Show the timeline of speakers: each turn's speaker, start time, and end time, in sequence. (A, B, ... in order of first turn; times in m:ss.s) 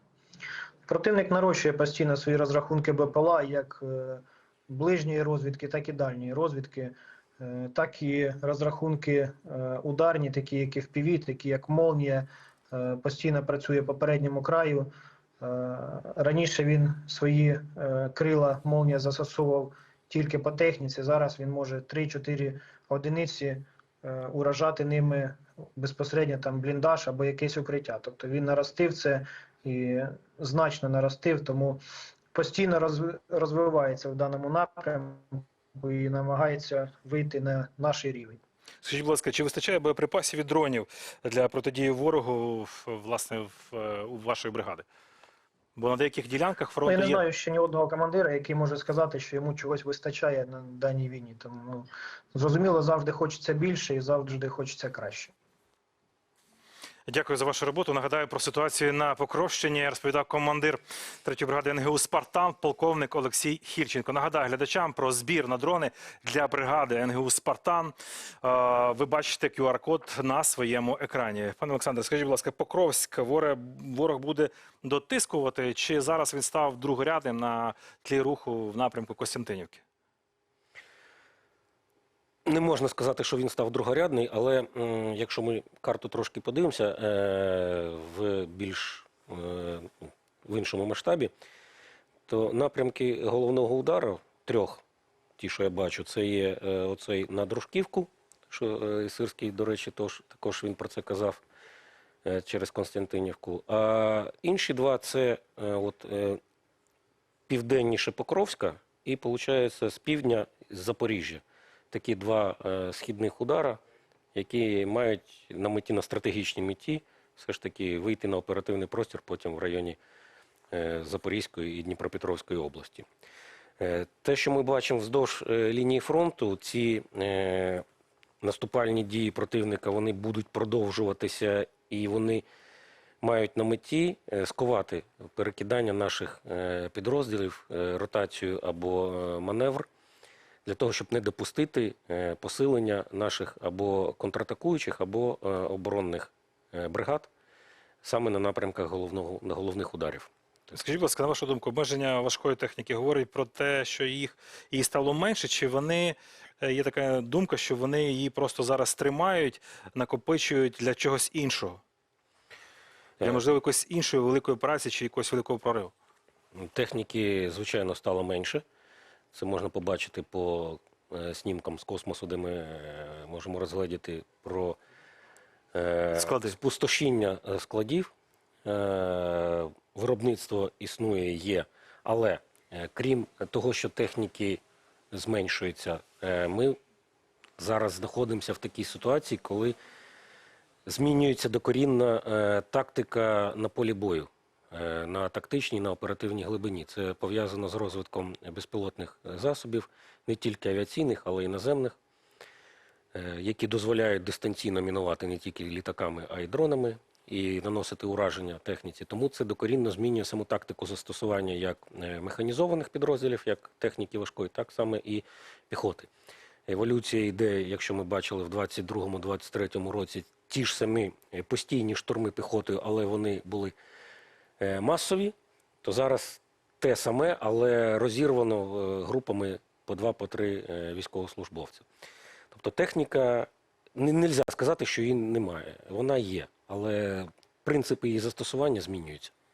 0:00.9-0:14.9 A
0:15.4-0:31.8 A
0:32.3-0:38.4 A
0:38.8-0:44.8 B
0:45.8-0:47.2 B
0:46.8-0:55.3 A
0:57.1-1:19.8 B
1:22.4-1:29.9 C
1:30.4-1:31.3 C
1:32.3-1:34.8 C
1:35.4-1:41.4 C
1:42.2-1:46.4 C
1:47.5-1:53.8 C
1:54.4-2:00.0 C
2:00.7-2:03.1 C
2:03.8-2:07.8 C
2:08.4-2:12.4 C
2:13.2-2:19.9 C
2:20.6-2:27.3 C
2:28.0-2:30.3 C
2:30.7-2:41.8 B
2:43.2-2:45.9 B
2:46.6-2:48.6 C
2:49.3-2:54.8 C
2:55.7-2:58.1 C
2:56.1-2:56.6 B
2:58.6-3:04.6 C
3:05.1-3:06.8 C
3:07.6-3:09.8 C
3:10.9-3:21.9 C
3:23.1-3:36.1 C
3:36.7-3:43.7 C
3:44.6-3:51.8 C
3:52.5-3:59.3 C